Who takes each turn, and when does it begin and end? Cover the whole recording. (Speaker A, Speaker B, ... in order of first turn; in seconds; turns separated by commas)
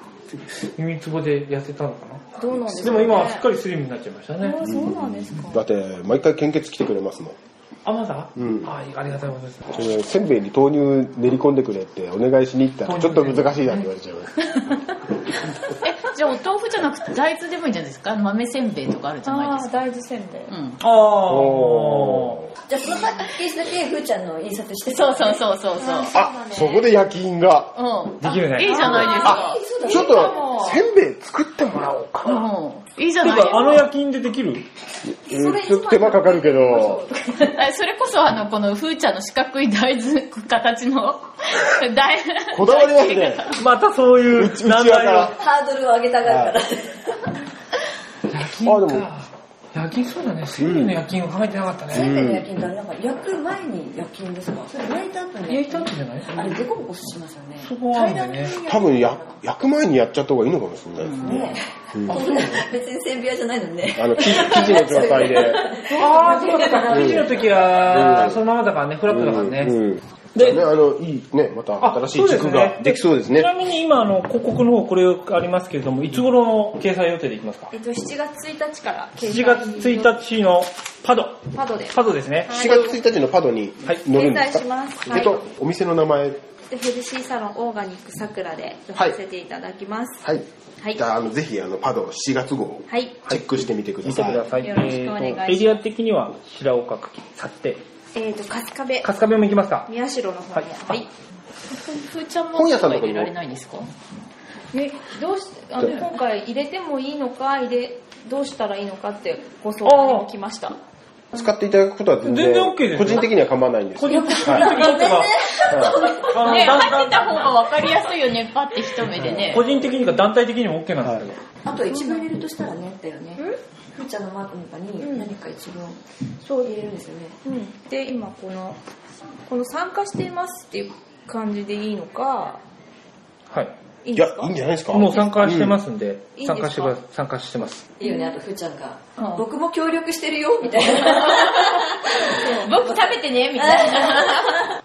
Speaker A: 0.5-4.6, Speaker B: 2.4-3.5, Speaker B: 4.4-5.6, Speaker C: 4.7-4.9, Speaker C: 5.5-7.3, Speaker A: 7.8-9.8, Speaker C: 8.4-8.7, Speaker C: 9.7-14.7, Speaker A: 12.8-13.5, Speaker D: 15.8-19.8, Speaker B: 19.2-20.5, Speaker D: 20.5-20.8, Speaker A: 20.8-22.4, Speaker C: 21.3-22.5, Speaker E: 22.6-25.5, Speaker D: 24.9-26.1, Speaker B: 25.8-26.9, Speaker C: 26.1-27.8, Speaker D: 27.7-29.6, Speaker A: 28.2-29.1, Speaker B: 28.6-30.8, Speaker E: 29.0-30.4, Speaker C: 29.1-32.4, Speaker D: 32.2-33.9, Speaker A: 33.2-34.6, Speaker C: 35.1-37.0, Speaker B: 35.3-37.5, Speaker D: 37.4-43.6, Speaker C: 42.5-43.5, Speaker A: 43.5-45.3, Speaker C: 44.3-45.3, Speaker E: 45.2-47.3, Speaker C: 46.2-46.5, Speaker A: 48.3-52.1, Speaker C: 48.6-49.1, Speaker C: 50.6-50.9, Speaker E: 51.9-59.4, Speaker C: 52.0-52.4, Speaker A: 55.5-56.6, Speaker A: 57.6-58.6, Speaker C: 58.6-62.2, Speaker E: 61.1-67.5, Speaker A: 62.1-62.7, Speaker C: 63.9-65.7, Speaker A: 65.8-69.7, Speaker B: 66.3-66.5, Speaker C: 66.9-67.3, Speaker C: 67.8-68.4, Speaker C: 69.1-73.5, Speaker A: 71.8-77.7, Speaker B: 77.7-80.2, Speaker A: 79.2-82.6, Speaker B: 81.5-83.0, Speaker C: 82.5-86.4, Speaker B: 84.1-85.5, Speaker B: 86.7-90.2, Speaker C: 90.2-94.5, Speaker B: 92.9-93.2, Speaker A: 94.0-97.8, Speaker B: 94.6-95.8, Speaker B: 98.1-99.1, Speaker A: 99.0-99.9, Speaker B: 99.9-101.1, Speaker D: 101.7-103.9, Speaker C: 102.5-103.3, Speaker B: 104.7-110.8, Speaker A: 109.8-110.2, Speaker C: 111.3-114.8, Speaker A: 112.2-113.3, Speaker A: 114.0-117.5, Speaker E: 114.0-116.6, Speaker D: 116.2-119.7, Speaker A: 119.2-121.4, Speaker C: 121.0-121.3, Speaker E: 121.6-126.0, Speaker B: 121.9-122.3, Speaker B: 125.0-125.3, Speaker B: 126.4-126.7, Speaker E: 126.6-127.3, Speaker B: 127.4-128.8, Speaker B: 129.5-132.6, Speaker B: 134.0-135.3, Speaker C: 134.1-135.8, Speaker A: 134.9-137.8, Speaker B: 136.3-137.0, Speaker E: 138.0-144.1, Speaker D: 141.1-144.7